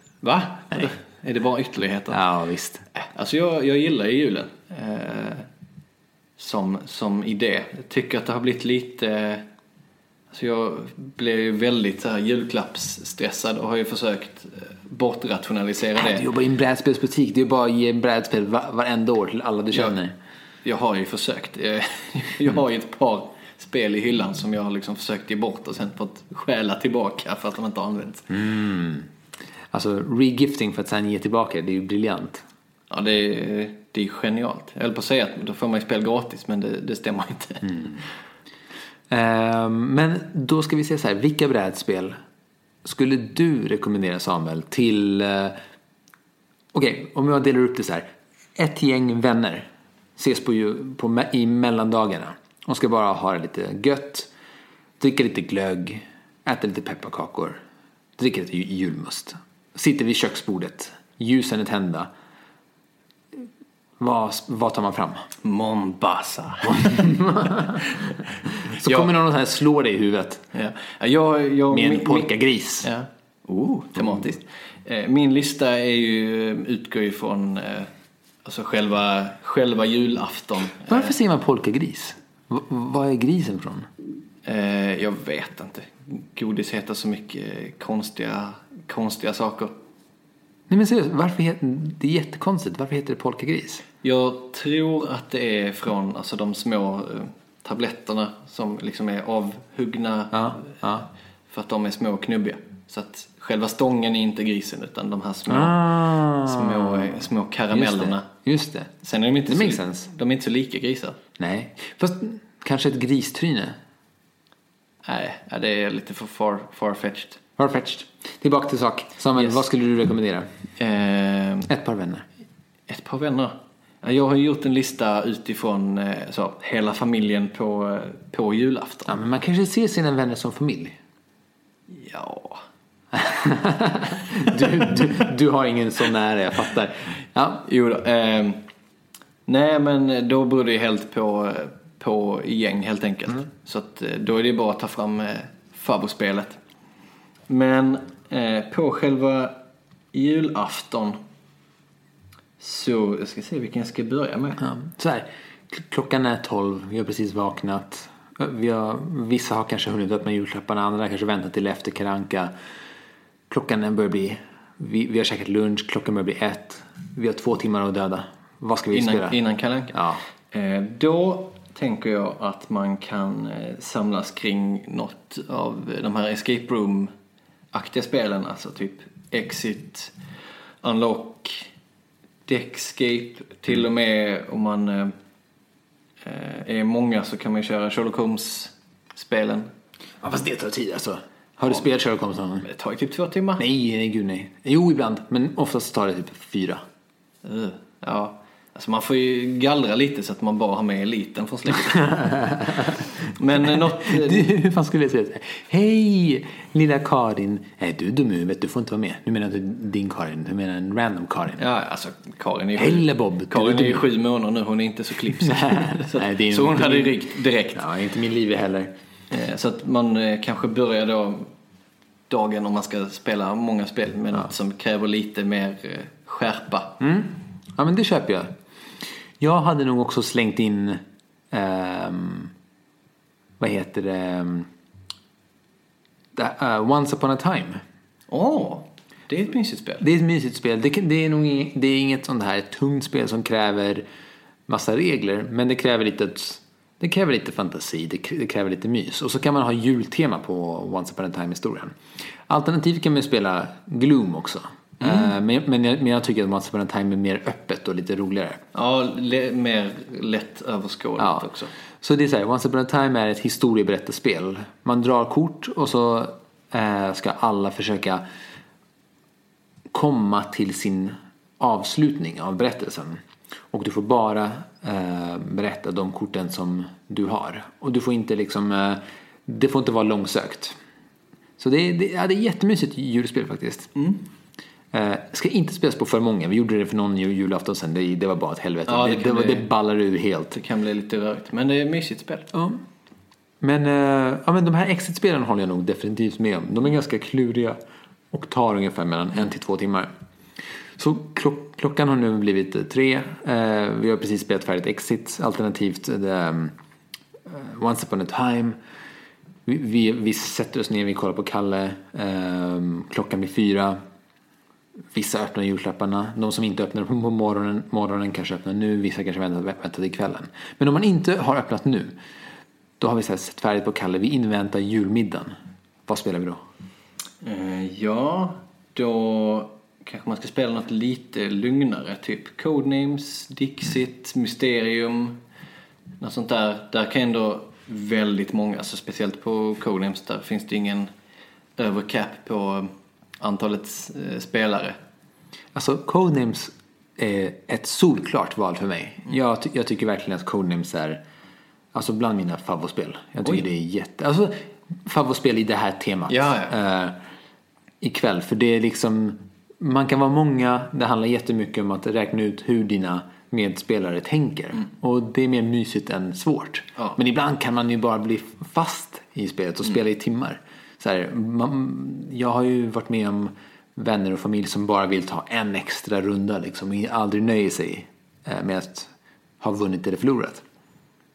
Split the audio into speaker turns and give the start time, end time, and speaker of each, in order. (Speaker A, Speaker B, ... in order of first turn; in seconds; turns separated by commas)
Speaker A: 0.2-2.2, Speaker B: 2.1-2.8, Speaker A: 3.0-5.5, Speaker A: 6.4-9.4, Speaker A: 10.3-16.2, Speaker B: 16.0-20.1, Speaker A: 20.6-28.3, Speaker B: 28.3-29.1, Speaker B: 29.7-32.4, Speaker A: 32.9-37.8, Speaker B: 37.6-38.0, Speaker B: 39.1-42.2, Speaker B: 42.8-45.6, Speaker B: 46.7-54.3, Speaker B: 55.0-57.6, Speaker B: 58.2-62.1, Speaker B: 64.0-65.2, Speaker A: 65.4-67.2, Speaker B: 66.6-67.8, Speaker B: 68.7-70.4, Speaker A: 68.8-69.1, Speaker A: 70.5-72.3, Speaker B: 71.7-72.9, Speaker A: 72.8-77.9, Speaker A: 78.4-81.1, Speaker B: 80.9-83.9, Speaker A: 84.4-89.7, Speaker B: 90.7-93.8, Speaker A: 94.0-100.8, Speaker B: 100.3-101.1, Speaker A: 101.5-108.3, Speaker B: 105.5-107.2, Speaker B: 107.7-108.9, Speaker A: 109.0-111.2, Speaker B: 109.5-110.1, Speaker B: 111.4-113.8, Speaker A: 115.0-117.4, Speaker B: 117.6-120.5, Speaker A: 119.3-119.6, Speaker A: 120.8-121.7, Speaker B: 121.7-122.2, Speaker A: 122.9-129.1, Speaker B: 129.1-131.0, Speaker A: 131.9-132.6, Speaker B: 133.1-137.7, Speaker A: 137.7-138.6, Speaker A: 139.5-146.6, Speaker A: 147.5-149.6, Speaker A: 150.1-151.2, Speaker A: 152.6-154.6, Speaker B: 154.6-162.5, Speaker B: 163.5-169.4, Speaker A: 168.9-177.1, Speaker B: 169.9-170.2, Speaker A: 177.7-180.1, Speaker A: 180.8-181.7, Speaker A: 182.5-185.1, Speaker A: 186.2-189.7, Speaker B: 190.2-192.7, Speaker A: 192.6-193.6, Speaker B: 193.6-196.8, Speaker A: 197.4-204.5, Speaker B: 202.2-202.9, Speaker B: 204.0-211.6, Speaker A: 211.6-217.8, Speaker B: 212.8-214.1, Speaker B: 215.4-218.9, Speaker A: 219.3-221.5, Speaker A: 222.3-227.0, Speaker B: 227.0-228.5, Speaker B: 229.4-232.5, Speaker B: 233.6-234.7, Speaker B: 236.3-237.8, Speaker A: 238.3-240.0, Speaker B: 240.0-244.0, Speaker B: 244.7-251.9, Speaker B: 252.5-258.6, Speaker A: 255.0-255.3, Speaker A: 258.7-261.7, Speaker B: 261.2-261.5, Speaker B: 262.0-268.2, Speaker B: 269.9-280.8, Speaker B: 281.6-283.9, Speaker A: 283.9-284.2, Speaker B: 284.9-290.5, Speaker A: 288.9-289.7, Speaker A: 290.5-292.5, Speaker B: 292.5-292.8, Speaker B: 293.6-297.8, Speaker B: 298.3-300.1, Speaker B: 301.0-306.7, Speaker B: 307.5-308.8, Speaker B: 309.6-314.0, Speaker B: 315.1-322.1, Speaker B: 323.0-325.5, Speaker B: 326.1-326.6, Speaker A: 327.4-335.4, Speaker A: 336.2-341.1, Speaker A: 341.8-345.0, Speaker B: 345.7-351.2, Speaker B: 351.9-357.2, Speaker A: 356.3-356.7, Speaker B: 358.0-380.6